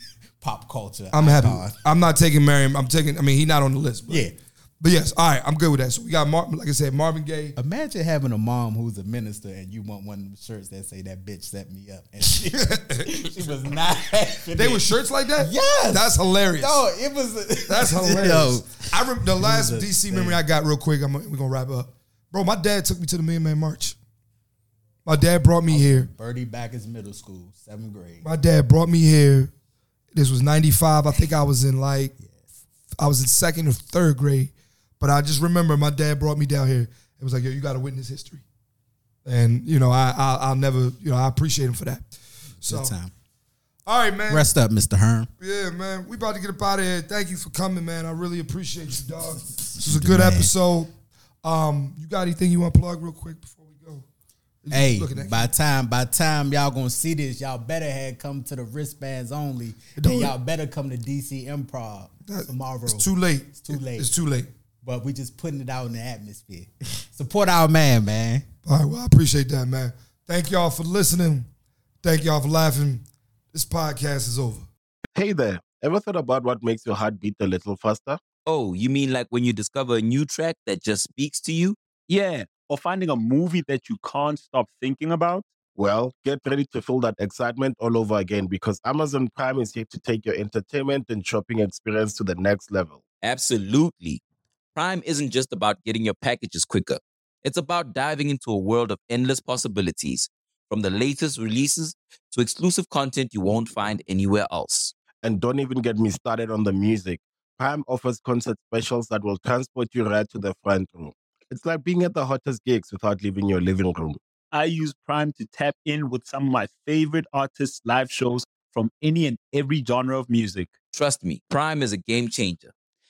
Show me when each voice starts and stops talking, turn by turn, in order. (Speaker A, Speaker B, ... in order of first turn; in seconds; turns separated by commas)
Speaker A: 0.4-1.8, Speaker B: 1.1-4.3, Speaker A: 4.1-4.3, Speaker B: 4.8-7.5, Speaker A: 7.5-20.4, Speaker B: 12.3-13.5, Speaker B: 14.5-16.8, Speaker B: 17.7-24.0, Speaker B: 25.0-26.1, Speaker A: 25.7-28.2, Speaker B: 28.2-29.5, Speaker B: 30.1-32.1, Speaker A: 32.2-32.5, Speaker B: 33.0-38.4, Speaker B: 39.2-42.9, Speaker A: 42.6-43.1, Speaker B: 43.9-44.5, Speaker A: 44.3-45.3, Speaker B: 45.4-50.9, Speaker A: 49.6-50.5, Speaker B: 51.4-54.0, Speaker B: 54.6-55.5, Speaker A: 54.7-64.1, Speaker B: 60.0-60.3, Speaker B: 62.3-64.5, Speaker A: 64.8-68.5, Speaker B: 68.6-71.5, Speaker B: 72.0-74.7, Speaker C: 75.1-78.2, Speaker D: 78.5-81.8, Speaker E: 82.1-85.5, Speaker C: 85.8-93.0, Speaker D: 93.2-94.2, Speaker D: 94.7-104.9, Speaker C: 105.2-114.2, Speaker E: 114.5-120.7, Speaker D: 120.9-122.7